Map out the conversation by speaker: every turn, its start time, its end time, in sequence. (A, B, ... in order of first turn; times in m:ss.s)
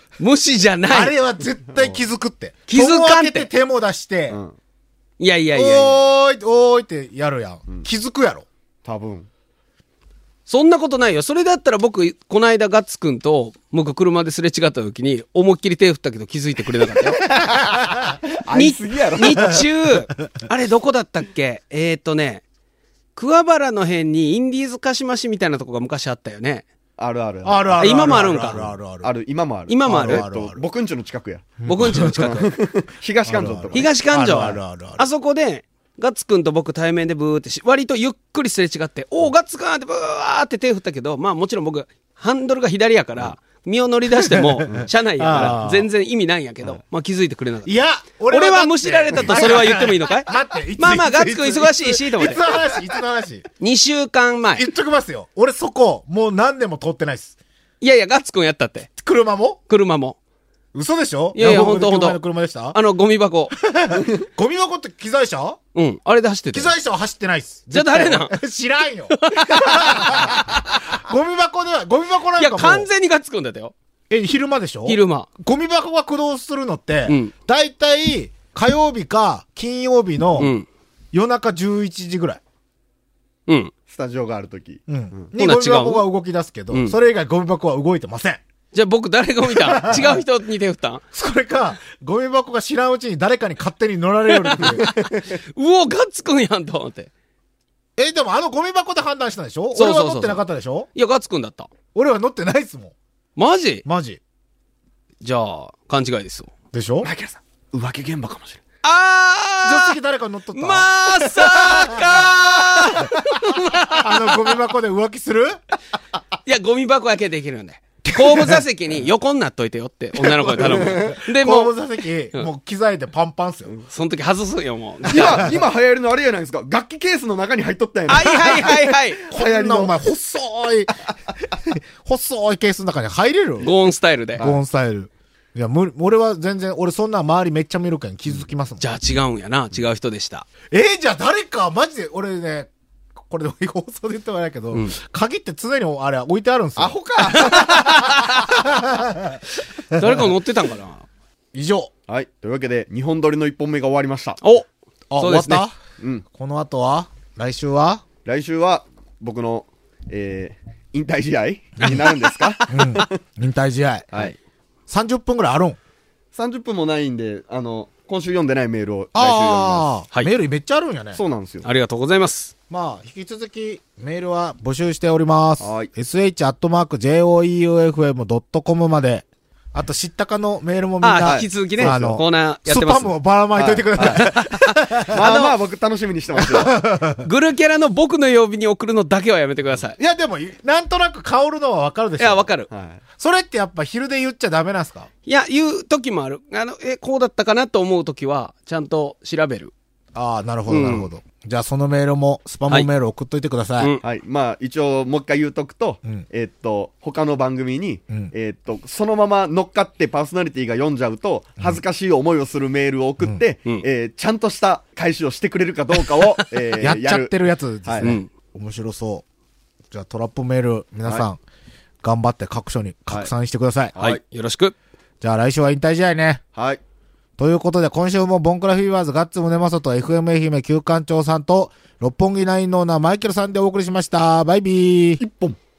0:00.2-0:01.2 A
0:00.9-0:04.4 B
0:01.7-0:02.0 C
0:02.7-0:03.5 A
0:04.3-0:04.5 C
0:05.2-0:06.0 A
0:05.6-0:08.4 B
0:08.8-0:09.3 C
0:10.5-0:17.2 A
0:17.4-0:18.7 B
0:18.3-0:19.6 C
0:18.5-0:22.4 A
0:19.2-0:19.9 B
0:23.2-0:26.6 A
0:27.0-0:34.5 C
0:27.4-0:29.1 B
0:27.8-0:28.6 A
0:29.7-0:30.3 A
0:29.8-0:30.6 B
0:31.6-0:32.4 B
0:31.7-0:32.5 A
0:33.2-0:35.0 B
0:33.7-0:47.7 A
0:44.2-0:45.9 B
0:44.7-0:45.5 C
0:47.6-0:53.4 B
0:48.3-0:52.4 A
0:49.1-0:49.7 C
0:53.6-0:54.6 A
0:54.6-0:57.3 B
0:57.8-0:58.9 A
0:59.0-0:59.6 B
0:59.7-1:00.2 A
1:00.7-1:02.8 B
1:01.3-1:02.2 A
1:02.7-1:03.5 A
1:03.5-1:05.6 B
1:05.7-1:06.7 A
1:06.5-1:12.9 B
1:07.7-1:08.3 A
1:09.1-1:10.9 A
1:12.4-1:13.7 A
1:14.1-1:20.5 B
1:14.8-1:15.3 A
1:17.1-1:17.3 A
1:20.4-1:20.6 A
1:21.1-1:22.4 B
1:23.9-1:25.3 C
1:24.9-1:28.4 B
1:25.4-1:26.0 A
1:28.7-1:31.0 A
1:29.6-1:30.2 B
1:31.1-1:34.8 B
1:34.5-1:37.1 A
1:34.8-1:35.2 C
1:38.0-1:40.9 B
1:39.7-1:40.4 A
1:40.9-1:41.7 A
1:41.9-1:42.9 B
1:43.4-1:43.8 A
1:43.8-1:44.2 B
1:45.2-1:46.5 A
1:46.7-1:47.1 B
1:47.0-1:48.6 C
1:48.8-1:50.0 A
1:49.6-1:53.3 B
1:50.5-1:54.4 A
1:53.8-1:55.6 B
1:56.4-2:01.7 A
1:58.0-1:58.6 B
2:00.2-2:03.7 B
2:00.6-2:01.1 C
2:03.9-2:05.5 A
2:05.1-2:05.6 B
2:05.1-2:09.9 C
2:08.1-2:09.2 A
2:09.3-2:13.7 B
2:13.6-2:14.4 A
2:14.4-2:14.6 C
2:14.4-2:18.9 B
2:18.8-2:20.5 A
2:20.7-2:22.7 B
2:23.2-2:30.3 B
2:26.8-2:27.9 C
2:27.3-2:28.5 A
2:29.9-2:31.0 A
2:31.5-2:31.9 B
2:32.1-2:34.4 C
2:34.4-2:34.7 A
2:35.1-2:35.8 B
2:35.2-2:35.6 A
2:36.0-2:36.2 C
2:36.3-2:38.0 B
2:38.2-2:43.2 C
2:41.8-2:42.1 B
2:42.7-2:44.1 B
2:44.9-2:45.8 B
2:46.3-2:49.9 C
2:49.1-2:51.2 B
2:51.2-2:51.6 C
2:51.6-2:52.5 A
2:52.7-3:05.3 B
2:55.6-2:55.9 C
3:01.0-3:03.1 A
3:01.2-3:02.2 C
3:03.5-3:04.3 C
3:04.0-3:05.5 A
3:05.1-3:06.7 C
3:06.4-3:07.2 B
3:07.2-3:10.0 A
3:10.0-3:12.5 B
3:12.2-3:12.7 A
3:12.7-3:13.0 C
3:13.2-3:15.1 B
3:15.2-3:19.7 A
3:20.1-3:23.9 B
3:20.7-3:21.1 A
3:24.0-3:38.1 C
3:36.8-3:39.2 B
3:38.0-3:38.3 A
3:39.9-3:41.4 B
3:42.0-3:44.0 B
3:44.0-3:44.7 A
3:45.2-3:46.4 B
3:47.4-3:55.2 B
3:55.2-3:55.6 C